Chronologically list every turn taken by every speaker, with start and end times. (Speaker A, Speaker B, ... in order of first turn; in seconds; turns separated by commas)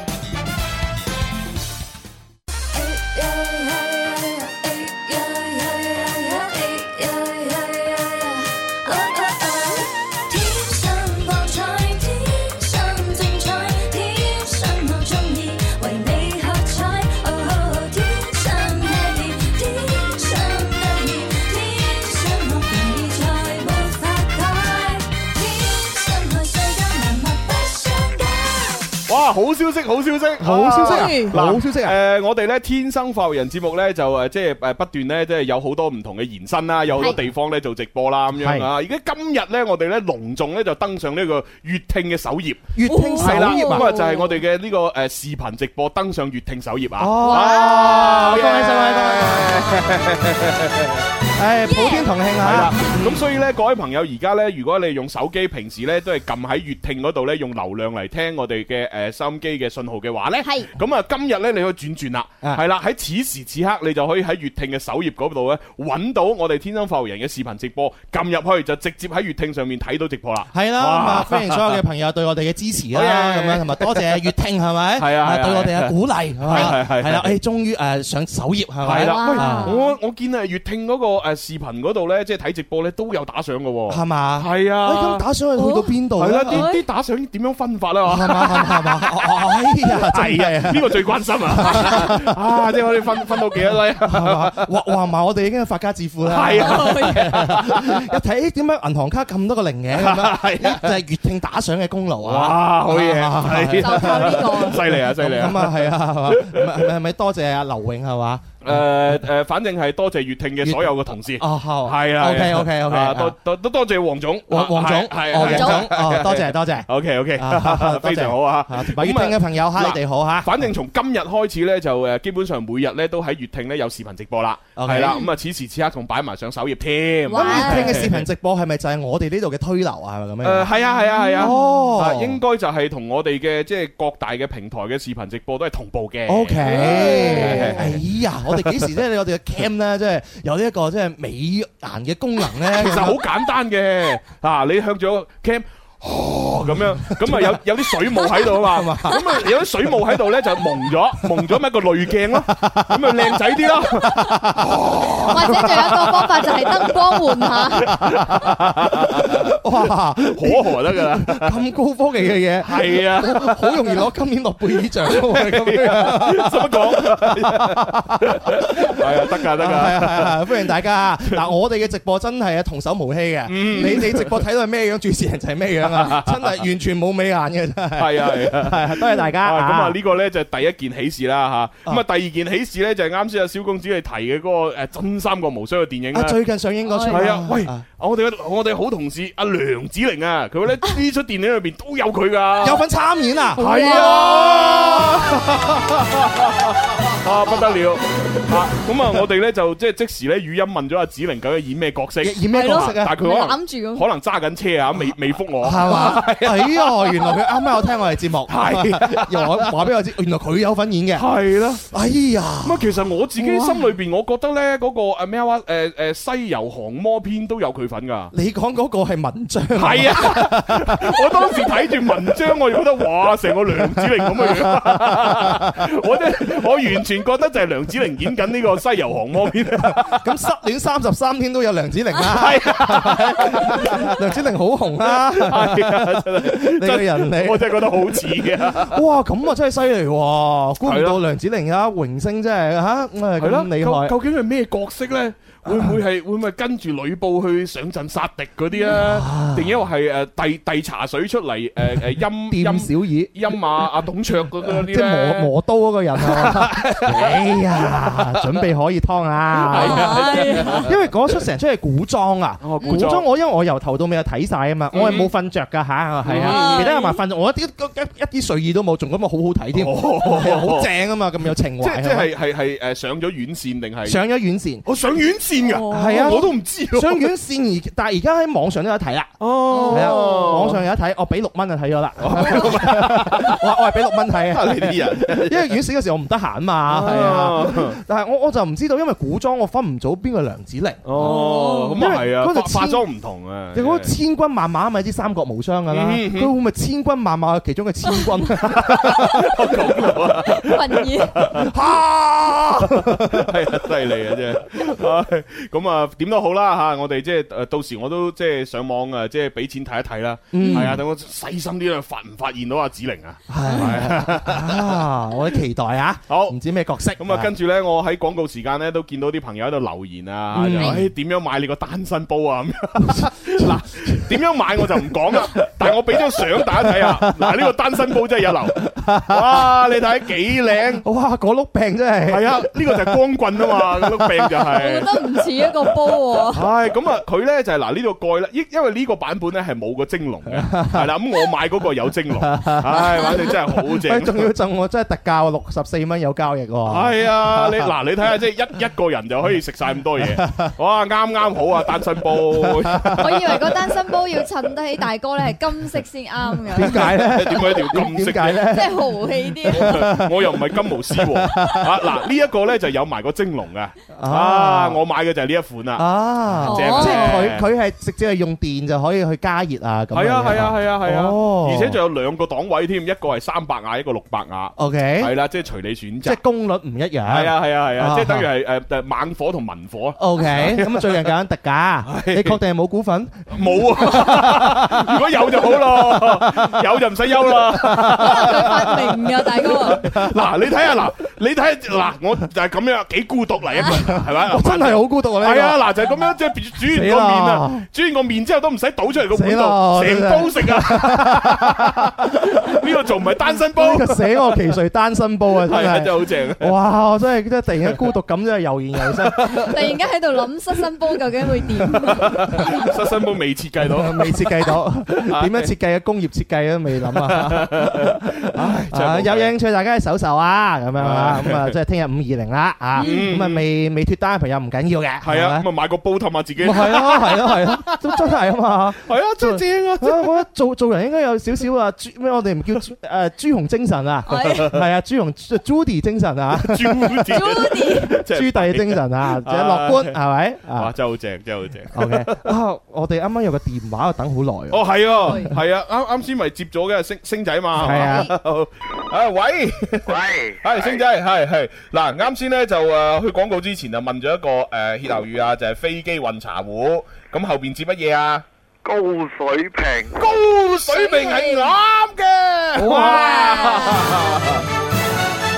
Speaker A: 2.8-8.2, Speaker A: 8.8-28.9, Speaker B: 29.1-51.0, Speaker C: 30.4-32.0, Speaker D: 30.8-31.3, Speaker C: 38.4-38.7, Speaker C: 42.7-43.9, Speaker D: 42.9-44.4, Speaker C: 47.0-49.8, Speaker D: 47.2-48.4, Speaker C: 51.4-53.2, Speaker D: 51.6-52.2, Speaker B: 52.4-71.8, Speaker D: 60.4-60.7, Speaker C: 70.5-79.8, Speaker B: 72.9-74.3, Speaker B: 75.0-77.4, Speaker B: 78.8-85.2, Speaker D: 78.9-79.9, Speaker C: 83.9-86.7, Speaker D: 85.6-85.9, Speaker B: 86.2-94.7, Speaker D: 86.5-86.8, Speaker C: 88.0-92.3, Speaker C: 94.0-109.2, Speaker B: 96.2-98.0, Speaker D: 96.6-97.3, Speaker B: 99.9-100.9, Speaker B: 102.2-106.9, Speaker D: 103.8-104.9, Speaker B: 108.6-128.2, Speaker C: 110.6-113.3, Speaker C: 114.5-120.7, Speaker D: 115.3-115.9, Speaker C: 124.8-125.2, Speaker D: 127.3-128.1, Speaker C: 127.3-130.7, Speaker B: 130.4-138.0, Speaker D: 130.8-131.8, Speaker C: 131.4-132.4, Speaker C: 136.3-143.2, Speaker D: 136.6-137.9, Speaker B: 138.5-138.9, Speaker B: 142.7-156.9, Speaker C: 146.6-149.5, Speaker C: 152.3-156.4, Speaker D: 155.3-158.0, Speaker B: 157.5-159.6, Speaker C: 157.7-180.0, Speaker B: 160.3-161.6, Speaker B: 162.6-164.0, Speaker B: 165.0-170.7, Speaker B: 173.5-174.3, Speaker B: 175.8-176.6, Speaker B: 178.0-186.4, Speaker C: 186.1-187.8, Speaker D: 186.9-187.2, Speaker B: 187.1-192.8, Speaker C: 192.6-195.8, Speaker D: 193.6-195.1, Speaker B: 193.6-207.2, Speaker C: 202.2-203.1, Speaker D: 202.5-204.1, Speaker C: 205.1-211.3, Speaker B: 208.5-209.7, Speaker B: 211.1-211.8, Speaker C: 211.8-212.9, Speaker B: 212.6-218.3, Speaker C: 218.3-222.3, Speaker B: 219.7-230.3, Speaker C: 223.7-225.9, Speaker C: 229.8-244.1, Speaker B: 232.3-234.2, Speaker B: 235.0-239.0, Speaker B: 240.8-241.2, Speaker B: 243.4-255.5, Speaker C: 245.6-246.0, Speaker C: 248.8-249.8, Speaker C: 252.5-253.9, Speaker C: 254.7-272.3, Speaker B: 256.2-258.6, Speaker B: 259.5-260.9, Speaker D: 259.7-260.9, Speaker B: 262.6-263.2, Speaker B: 264.9-265.3, Speaker B: 266.2-266.9, Speaker D: 266.3-267.2, Speaker B: 269.7-270.9, Speaker B: 271.8-274.2, Speaker C: 274.0-274.8, Speaker B: 274.9-277.3, Speaker D: 275.6-276.4, Speaker C: 275.9-293.0, Speaker B: 279.4-280.8, Speaker D: 279.7-280.6, Speaker B: 282.2-283.6, Speaker D: 282.4-282.8, Speaker B: 284.3-285.8, Speaker B: 286.9-288.0, Speaker B: 291.0-294.1, Speaker D: 291.2-292.1, Speaker C: 293.7-300.2, Speaker B: 295.9-296.5, Speaker D: 298.1-298.4, Speaker B: 298.7-315.0, Speaker D: 300.4-301.6, Speaker C: 301.4-303.7, Speaker C: 310.5-311.0, Speaker D: 310.6-311.0, Speaker C: 313.5-317.5, Speaker D: 313.6-313.9, Speaker B: 316.3-316.6, Speaker B: 317.2-331.0, Speaker C: 320.5-321.1, Speaker C: 323.0-327.7, Speaker C: 328.7-329.6, Speaker C: 331.0-334.7, Speaker B: 332.3-335.4, Speaker D: 334.7-336.6, Speaker B: 336.4-344.5, Speaker C: 340.5-341.1, Speaker C: 342.4-347.9, Speaker D: 343.0-343.5, Speaker B: 346.9-353.8, Speaker C: 350.2-350.7, Speaker C: 352.3-353.5, Speaker D: 353.2-357.1, Speaker C: 356.7-362.0, Speaker B: 356.8-358.7, Speaker D: 358.7-360.1, Speaker B: 359.7-367.7, Speaker C: 364.1-365.0, Speaker C: 366.0-372.0, Speaker D: 366.6-367.5, Speaker B: 370.1-376.4, Speaker C: 374.8-375.3, Speaker C: 376.2-378.5, Speaker B: 377.2-381.3, Speaker C: 380.2-390.5, Speaker B: 382.0-382.6, Speaker B: 383.5-389.1, Speaker D: 388.1-390.0, Speaker B: 389.6-404.6, Speaker C: 393.9-395.8, Speaker C: 396.8-397.9, Speaker C: 399.3-402.8, Speaker C: 403.6-409.6, Speaker B: 405.6-406.7, Speaker B: 409.0-409.7, Speaker D: 409.6-412.7, Speaker B: 411.9-415.7, Speaker C: 413.8-425.7, Speaker B: 417.0-419.5, Speaker B: 421.0-421.7, Speaker D: 423.0-423.3, Speaker B: 423.0-423.6, Speaker B: 425.2-428.2, Speaker C: 426.6-437.4, Speaker B: 429.0-430.4, Speaker D: 434.3-434.7, Speaker B: 434.3-434.8, Speaker B: 436.6-440.2, Speaker D: 437.3-438.2, Speaker C: 438.1-440.9, Speaker B: 440.7-442.5, Speaker C: 441.9-445.5, Speaker B: 444.7-458.4, Speaker D: 445.2-445.5, Speaker C: 447.8-448.3, Speaker D: 447.9-448.3, Speaker E: 450.1-451.0, Speaker E: 458.8-460.2, Speaker B: 460.1-464.6, Speaker D: 460.9-461.7, Speaker C: 462.8-463.7, Speaker D: 462.9-464.2